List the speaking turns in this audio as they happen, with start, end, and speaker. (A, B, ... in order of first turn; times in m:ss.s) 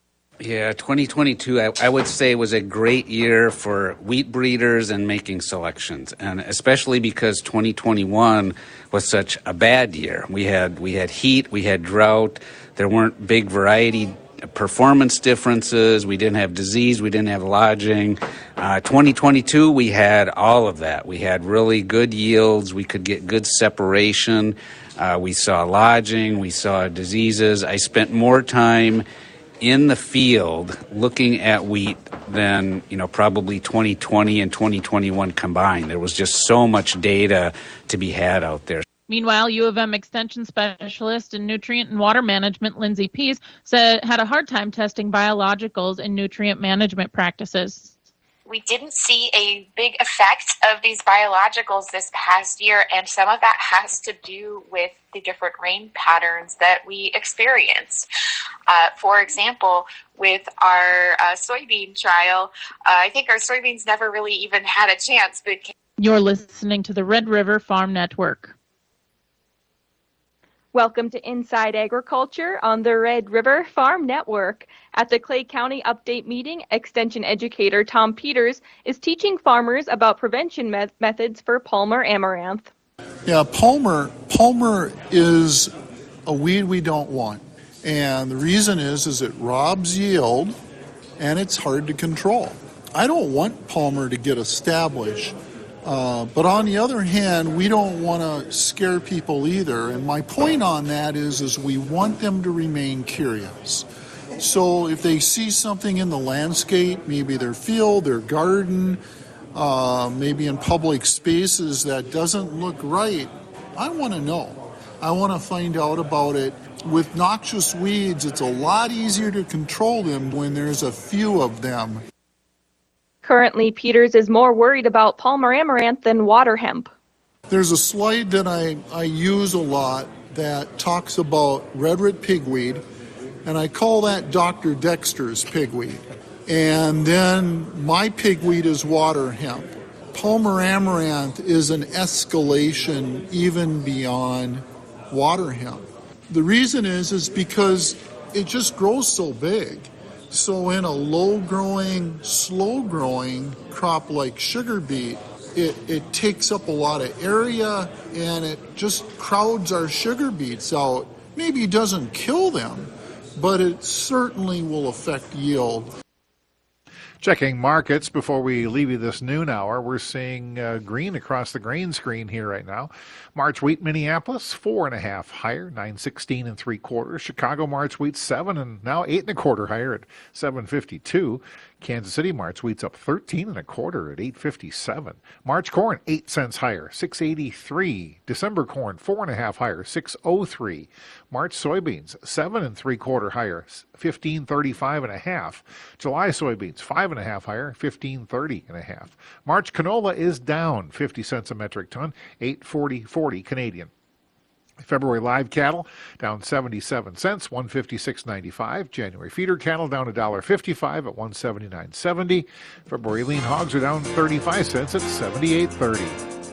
0:00.4-0:29.0 A
0:29.6-0:38.8 A
0:39.1-0:47.9 B
0:48.4-0:58.1 C
0:58.7-1:05.7 C
1:06.0-1:08.5 B
1:10.7-1:22.7 D
1:23.2-1:25.7 E
1:26.2-1:30.6 E
1:31.2-1:43.8 E
1:44.4-1:49.0 E
1:49.5-2:02.0 E
2:03.2-2:06.9 D
2:07.5-2:12.8 E
2:13.4-2:45.9 E
2:47.2-3:23.9 F
3:24.8-3:36.2 F